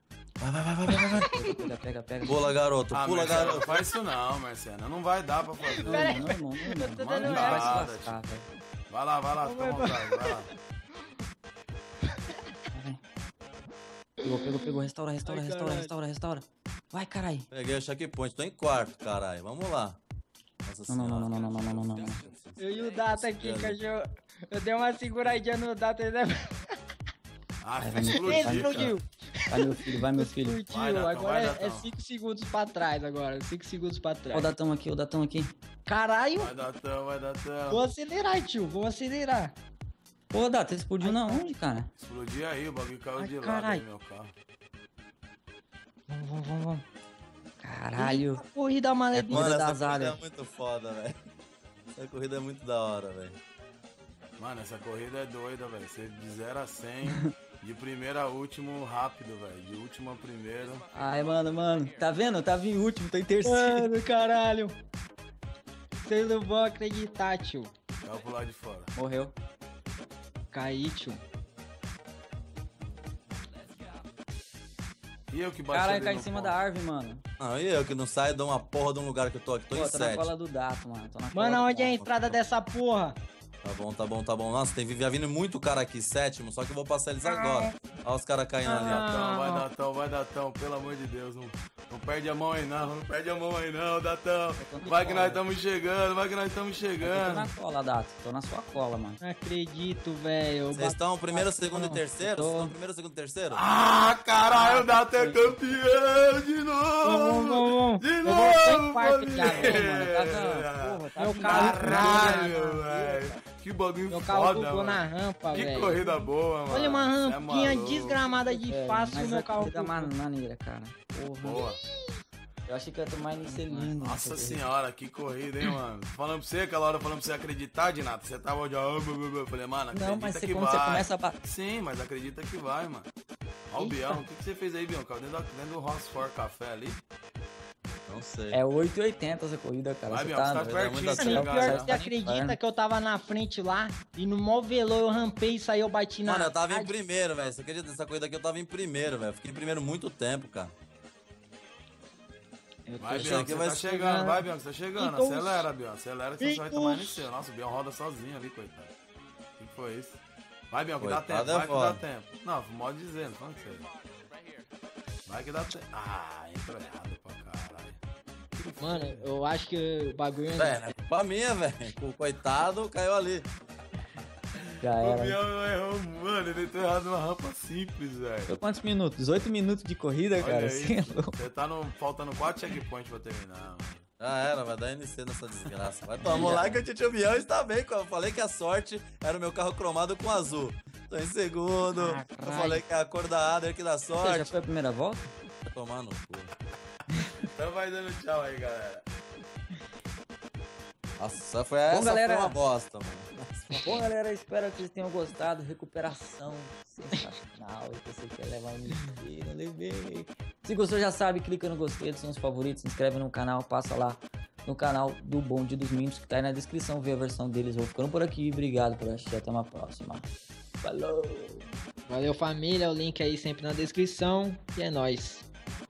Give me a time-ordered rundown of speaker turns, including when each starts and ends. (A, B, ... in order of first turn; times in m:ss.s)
0:00.4-0:01.6 A
0:00.9-0:01.5 B
0:01.3-0:02.5 C
0:02.2-0:03.7 A
0:02.9-0:06.2 D
0:05.7-0:07.9 B
0:05.8-0:08.5 C
0:06.8-0:08.2 D
0:08.9-0:10.5 D
0:09.4-0:10.6 B
0:12.7-0:13.0 C
0:14.2-0:15.9 B
0:14.2-0:17.5 C
0:17.5-0:20.0 A
0:20.6-0:22.6 A
0:20.9-0:22.2 C
0:22.6-0:26.7 B
0:23.1-0:23.8 A
0:27.6-0:29.0 D
0:27.8-0:29.0 C
0:28.1-0:34.5 B
0:29.5-0:30.6 C
0:30.7-0:31.9 D
0:34.3-0:35.5 C
0:35.9-0:36.5 B
0:36.4-0:37.8 D
0:37.7-0:39.5 B
0:40.3-0:41.9 C
0:41.0-0:41.5 B
0:42.0-0:44.3 D
0:43.2-0:43.8 B
0:46.1-0:46.8 B
0:47.6-0:48.4 C
0:47.9-0:49.9 B
0:49.1-0:50.2 C
0:49.3-0:51.2 A
0:51.9-0:53.4 A
0:54.4-1:00.9 D
1:00.9-1:03.9 C
1:03.4-1:04.8 B
1:06.0-1:07.7 B
1:08.0-1:08.9 D
1:09.0-1:09.3 C
1:10.5-1:11.2 B
1:15.3-1:16.6 D
1:15.7-1:17.2 C
1:17.4-1:20.3 A
1:19.7-1:22.1 C
1:21.3-1:23.2 B
1:22.1-1:22.4 A
1:23.6-1:29.0 A
1:27.2-1:27.8 B
1:28.6-1:29.6 B
1:28.9-1:37.5 D
1:34.6-1:35.4 C
1:37.0-1:39.2 C
1:39.2-1:41.5 B
1:40.7-1:43.6 A
1:41.6-1:42.7 C
1:43.5-1:58.2 D
1:44.5-1:45.6 C
1:47.0-1:49.9 B
1:49.4-1:52.6 C
1:51.2-1:53.4 B
1:54.1-2:00.1 B
1:58.5-2:01.6 C
2:01.4-2:01.8 D
2:01.5-2:02.2 B
2:02.6-2:04.6 C
2:04.0-2:13.1 D
2:09.9-2:11.4 C
2:13.7-2:17.0 D
2:13.8-2:14.1 B
2:18.1-2:18.6 A
2:18.5-2:22.6 C
2:20.1-2:21.9 D
2:20.6-2:21.4 A
2:21.2-2:26.9 B
2:26.2-2:30.7 A
2:32.9-2:35.7 B
2:33.0-2:38.9 D
2:33.0-2:33.9 A
2:36.4-2:37.3 B
2:39.6-2:43.9 D
2:41.0-2:42.0 A
2:45.2-2:48.0 D
2:48.5-2:49.2 D
2:48.8-2:50.9 B
2:50.6-2:53.5 A
2:54.8-2:55.4 C
2:54.9-2:58.5 D
2:58.5-3:01.3 C
3:00.4-3:04.0 D
3:04.2-3:14.5 A
3:06.3-3:06.8 C
3:11.9-3:12.8 C
3:14.1-3:15.3 C
3:15.6-3:16.5 A
3:17.5-3:19.0 D
3:21.2-3:24.1 A
3:21.9-3:22.6 C
3:23.8-3:40.3 C
3:40.8-3:41.7 C
3:42.1-3:45.4 B